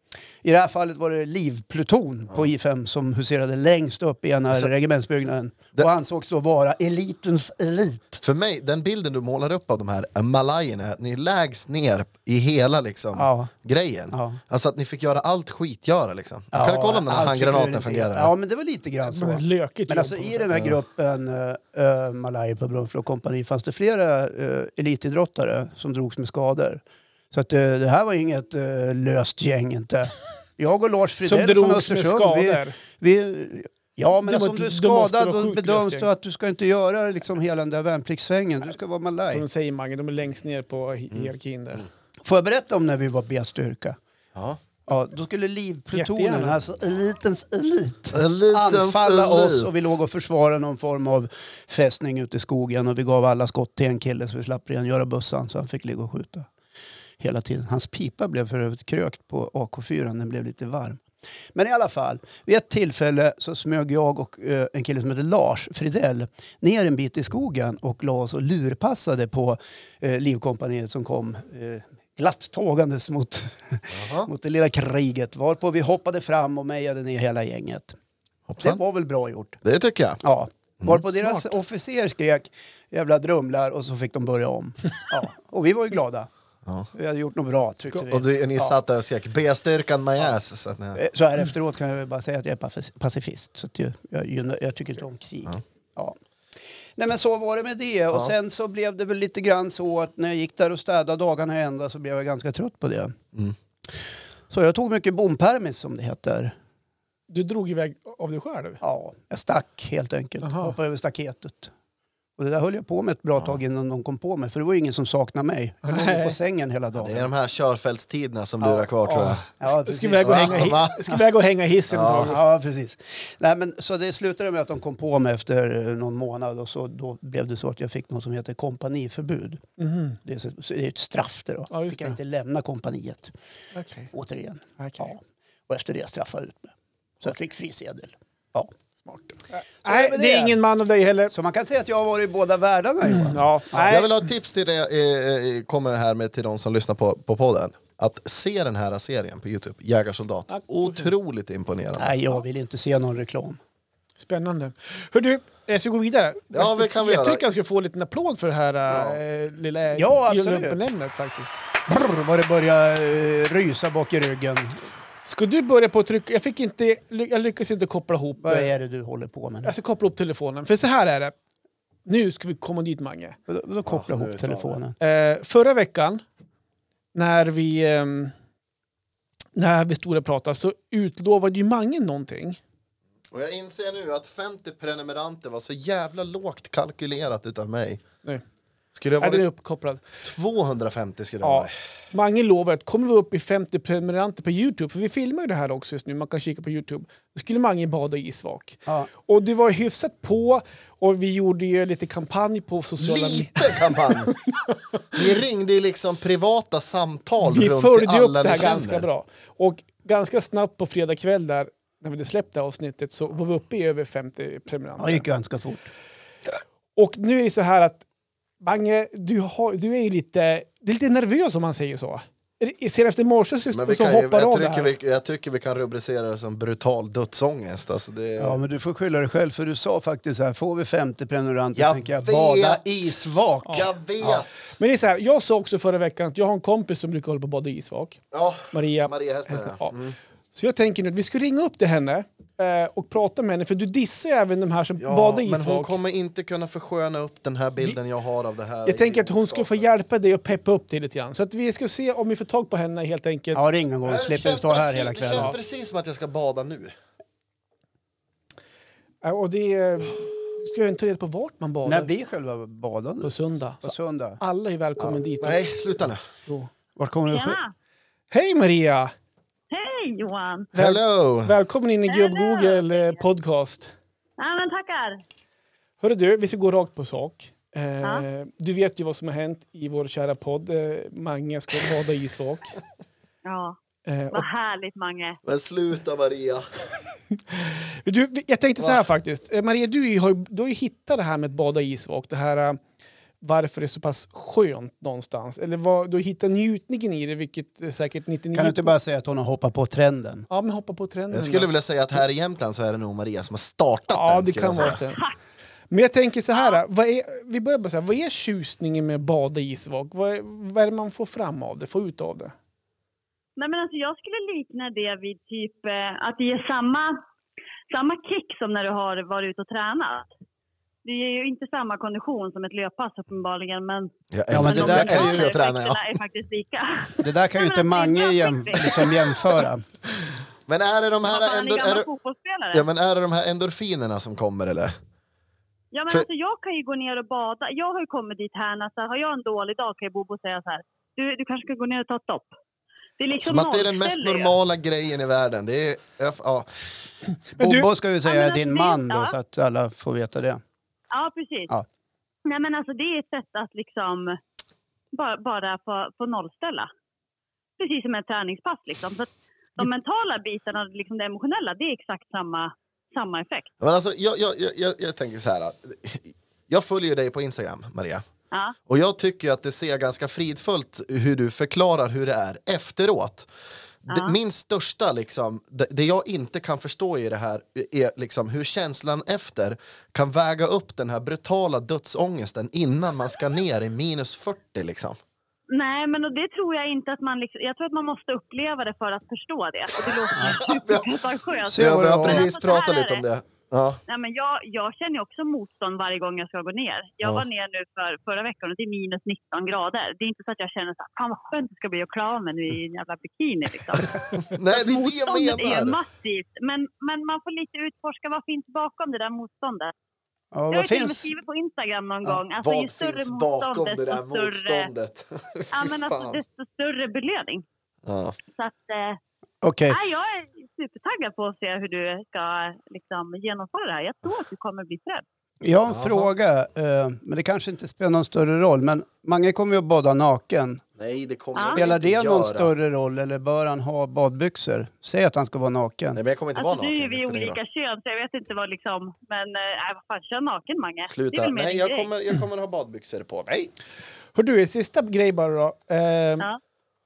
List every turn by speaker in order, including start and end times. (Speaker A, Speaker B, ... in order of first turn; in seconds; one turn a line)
Speaker A: 0.4-8.2
Speaker B: 8.2-18.3
Speaker A: 13.1-13.5
Speaker A: 14.1-14.4
Speaker A: 16.5-39.4
Speaker C: 19.1-20.5
Speaker C: 31.2-32.8
Speaker C: 34.2-36.1
Speaker C: 39.3-41.9
Speaker A: 42.2-44.0
Speaker A: 44.9-56.5
Speaker C: 45.9-46.5
Speaker B: 48.1-49.7
Speaker A: 57.2-61.0
Speaker A: 61.5-78.0
Speaker B: 73.9-74.3
Speaker B: 78.5-78.8
Speaker A: 78.6-79.6
Speaker B: 79.6-80.2
Speaker A: 80.2-86.3
Speaker A: 86.9-88.8
Speaker B: 88.0-91.0
Speaker A: 90.9-96.2
Speaker A: 97.0-103.2
Speaker A: 104.5-106.5
Speaker C: 107.3-108.8
Speaker A: 108.8-111.7
Speaker C: 110.4-110.7
Speaker A: 112.4-117.3
Speaker C: 115.8-116.3
Speaker B: 117.0-119.4
Speaker C: 119.0-122.4
Speaker A: 119.6-120.8
Speaker B: 120.2-121.0
Speaker B: 121.9-122.3
Speaker A: 122.2-129.6
Speaker C: 129.8-130.2
Speaker A: 130.2-133.3
Speaker C: 131.7-132.2
Speaker C: 133.7-134.1
Speaker A: 134.1-138.7
Speaker C: 134.8-135.1
Speaker C: 139.0-141.3
Speaker A: 139.8-140.6
Speaker A: 141.3-143.9
Speaker C: 143.0-144.2
Speaker B: 143.8-152.1
Speaker C: 150.5-151.1
Speaker A: 152.0-153.6
Speaker C: 154.2-161.6
Speaker B: 156.5-157.4
Speaker B: 158.9-159.2
Speaker A: 159.9-160.8
Speaker A: 161.8-164.8
Speaker C: 165.2-168.7
Speaker A: 168.4-169.7
Speaker C: 169.6-171.3
Speaker C: 172.1-173.4
Speaker A: 173.5-174.9
Speaker B: 173.9-174.8
Speaker C: 175.0-176.2
Speaker C: 177.1-178.3
Speaker C: 179.5-182.6
Speaker B: 183.3-188.0
Speaker B: 188.9-189.4
Speaker C: 189.2-190.0
Speaker B: 190.2-191.7
Speaker C: 191.4-205.3
Speaker B: 203.0-204.3
Speaker B: 205.1-209.1
Speaker C: 207.4-215.2
Speaker A: 215.0-215.9
Speaker C: 217.0-218.0
Speaker C: 218.6-224.9
Speaker B: 223.7-228.6
Speaker A: 228.4-234.4
Speaker B: 231.8-234.5
Speaker C: 234.8-239.9
Speaker B: 238.3-240.2
Speaker C: 240.5-245.9
Speaker B: 245.0-249.8
Speaker C: 248.8-253.6
Speaker A: 253.5-255.5
Speaker B: 254.0-256.9
Speaker C: 259.2-262.1
Speaker A: 261.8-264.4
Speaker C: 263.2-265.6
Speaker B: 265.4-266.2
Speaker A: 266.9-267.6
Speaker D: 267.3-267.7
Speaker C: 268.3-269.1
Speaker D: 269.7-270.7
Speaker C: 270.7-273.9
Speaker B: 270.8-271.6
Speaker D: 272.1-273.2
Speaker D: 274.4-275.2
Speaker C: 276.0-282.8
Speaker D: 283.4-283.8
Speaker C: 284.1-284.4
Speaker D: 284.3-285.4
Speaker B: 285.4-286.6
Speaker C: 287.5-292.8
Speaker C: 293.4-298.9
Speaker A: 298.5-300.5
Speaker C: 300.5-301.7
Speaker B: 301.3-305.0
Speaker C: 304.1-305.2
Speaker D: 305.1-305.3
Speaker C: 305.9-312.5
Speaker D: 313.6-317.2
Speaker D: 317.9-320.3
Speaker D: 321.0-329.4
Speaker B: 324.3-326.0
Speaker A: 324.5-325.5
Speaker A: 327.2-329.8
Speaker B: 330.7-332.1
Speaker D: 331.3-332.8
Speaker B: 332.7-334.9
Speaker D: 335.9-342.5
Speaker D: 343.2-344.5
Speaker B: 343.4-346.7
Speaker C: 347.6-347.9
Speaker A: 347.6-350.6
Speaker D: 348.2-349.3
Speaker D: 351.1-351.7
Speaker D: 352.4-354.4
Speaker D: 355.1-356.9
Speaker D: 357.8-363.7
Speaker B: 363.8-368.2
Speaker B: 368.9-373.5
Speaker B: 374.1-385.2
Speaker D: 374.1-374.3
Speaker D: 385.7-393.2
Speaker B: 390.4-391.1
Speaker A: 391.7-392.5
Speaker B: 391.7-394.0
Speaker D: 394.1-409.9
Speaker B: 404.5-406.0
Speaker A: 410.5-411.3
Speaker D: 410.7-414.9
Speaker B: 412.6-416.4
Speaker D: 415.7-417.6
Speaker B: 418.0-418.3
Speaker D: 418.5-419.2
Speaker A: 419.6-420.0
Speaker D: 419.9-425.2
Speaker A: 425.6-430.8
Speaker B: 425.9-426.3
Speaker B: 431.0-432.7
Speaker D: 431.5-431.8
Speaker A: 431.7-436.2
Speaker B: 436.1-437.6
Speaker D: 436.6-442.1
Speaker B: 441.1-443.7
Speaker C: 444.3-446.4